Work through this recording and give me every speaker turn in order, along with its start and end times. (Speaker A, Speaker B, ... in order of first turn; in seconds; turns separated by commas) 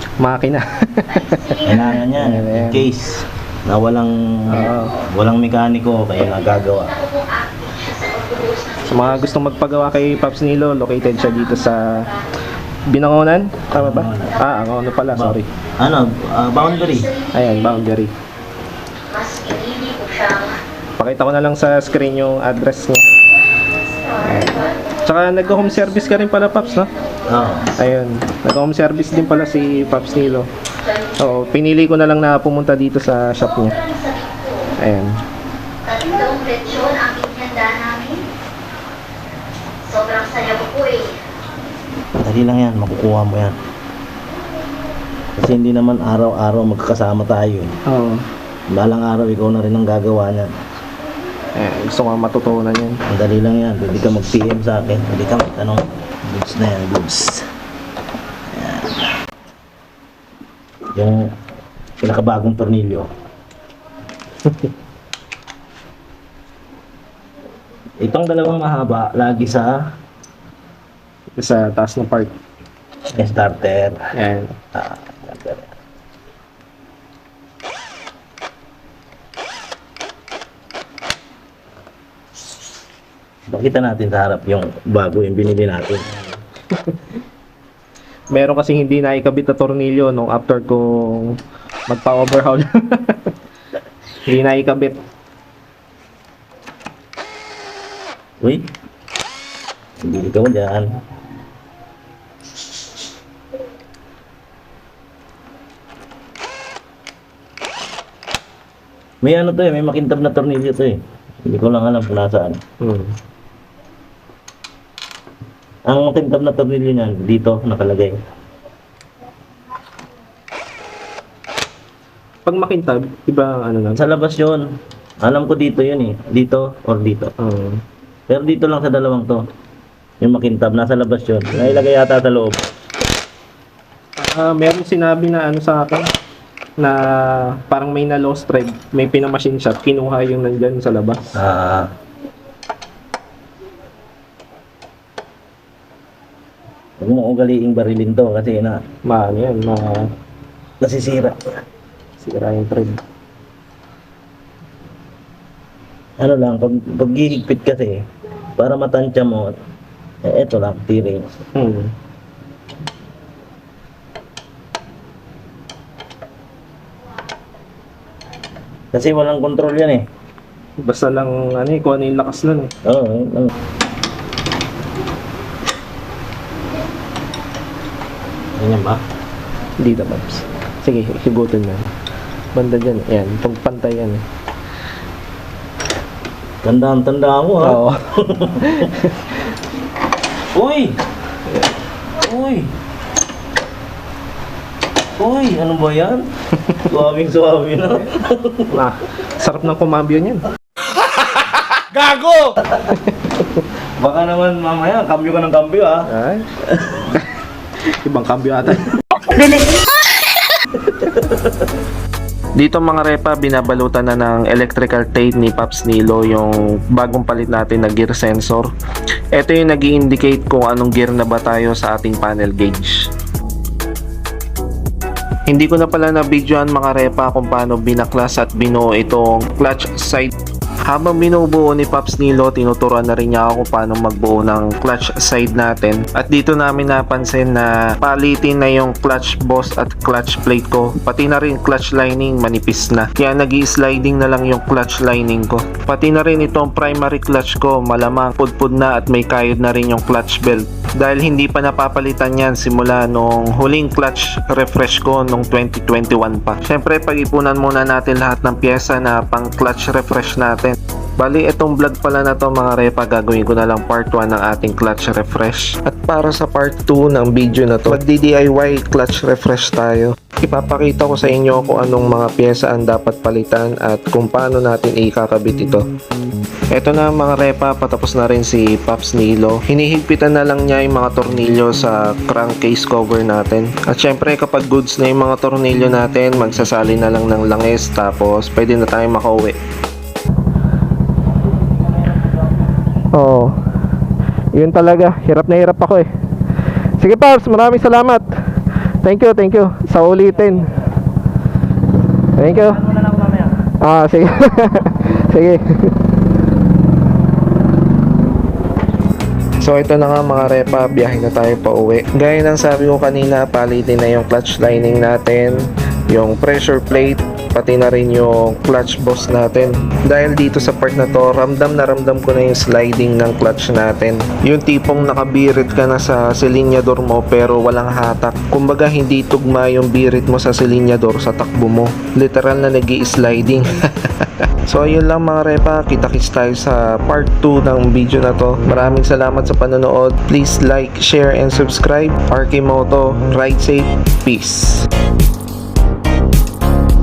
Speaker A: 0.2-2.9, Speaker B: 1.1-1.8, Speaker C: 1.6-6.9, Speaker A: 4.5-5.0, Speaker B: 6.9-9.9, Speaker A: 8.8-12.1, Speaker B: 11.3-12.2, Speaker A: 12.9-15.5, Speaker C: 13.7-14.4, Speaker C: 15.1-17.1, Speaker B: 16.7-17.4, Speaker A: 17.3-18.1, Speaker B: 19.1-20.6, Speaker A: 21.0-23.1, Speaker B: 23.6-24.9, Speaker A: 24.2-26.9, Speaker B: 25.6-27.8, Speaker C: 27.3-27.7, Speaker A: 27.8-30.5, Speaker B: 29.2-31.4, Speaker A: 31.2-33.8, Speaker B: 33.4-34.6, Speaker A: 34.8-35.2, Speaker B: 35.8-38.2, Speaker B: 39.8-41.2, Speaker C: 42.1-43.6, Speaker C: 45.4-47.7, Speaker A: 47.9-48.2, Speaker C: 48.7-50.5, Speaker A: 51.5-53.0, Speaker C: 53.1-57.5, Speaker C: 58.5-59.1, Speaker C: 60.9-61.3, Speaker C: 62.0-63.1, Speaker C: 68.0-69.9, Speaker A: 71.4-72.3, Speaker C: 73.1-74.1, Speaker A: 74.1-74.5, Speaker C: 74.7-75.7, Speaker C: 83.5-86.1, Speaker A: 88.3-93.3, Speaker A: 94.2-95.0, Speaker C: 98.4-98.7, Speaker C: 100.0-100.9, Speaker C: 109.2-112.6, Speaker A: 112.8-113.1, Speaker C: 115.9-118.2, Speaker A: 122.4-124.0, Speaker C: 124.0-124.7, Speaker C: 125.2-127.3, Speaker A: 127.4-127.8, Speaker C: 128.3-129.4, Speaker C: 130.2-132.6, Speaker A: 134.2-136.1, Speaker A: 136.8-141.3, Speaker C: 141.3-141.9, Speaker C: 147.0-148.8, Speaker A: 149.0-150.1, Speaker C: 150.8-151.4, Speaker A: 152.2-153.0, Speaker C: 156.2-158.0, Speaker C: 158.6-159.5, Speaker C: 160.2-161.3, Speaker A: 161.6-161.9, Speaker C: 168.9-170.1, Speaker A: 170.8-172.7, Speaker C: 172.8-173.5, Speaker C: 178.5-179.0, Speaker A: 179.8-181.9, Speaker A: 182.5-184.2, Speaker C: 186.6-188.9, Speaker A: 187.6-189.3, Speaker C: 190.5-191.0, Speaker C: 192.2-192.7, Speaker C: 195.2-196.2, Speaker C: 196.8-198.8, Speaker A: 198.7-200.4, Speaker C: 202.0-202.9, Speaker C: 204.0-206.1, Speaker A: 206.1-206.4, Speaker A: 207.9-209.0, Speaker C: 210.9-211.6, Speaker D: 212.6-218.7, Speaker D: 219.3-223.1, Speaker D: 225.5-230.3, Speaker D: 230.8-275.8, Speaker D: 276.7-289.6, Speaker C: 292.1-292.6, Speaker A: 293.1-293.6, Speaker A: 294.5-296.1, Speaker A: 297.0-298.3, Speaker A: 299.0-300.7, Speaker A: 302.4-302.8, Speaker C: 302.6-303.5, Speaker A: 303.8-305.9, Speaker D: 309.6-344.9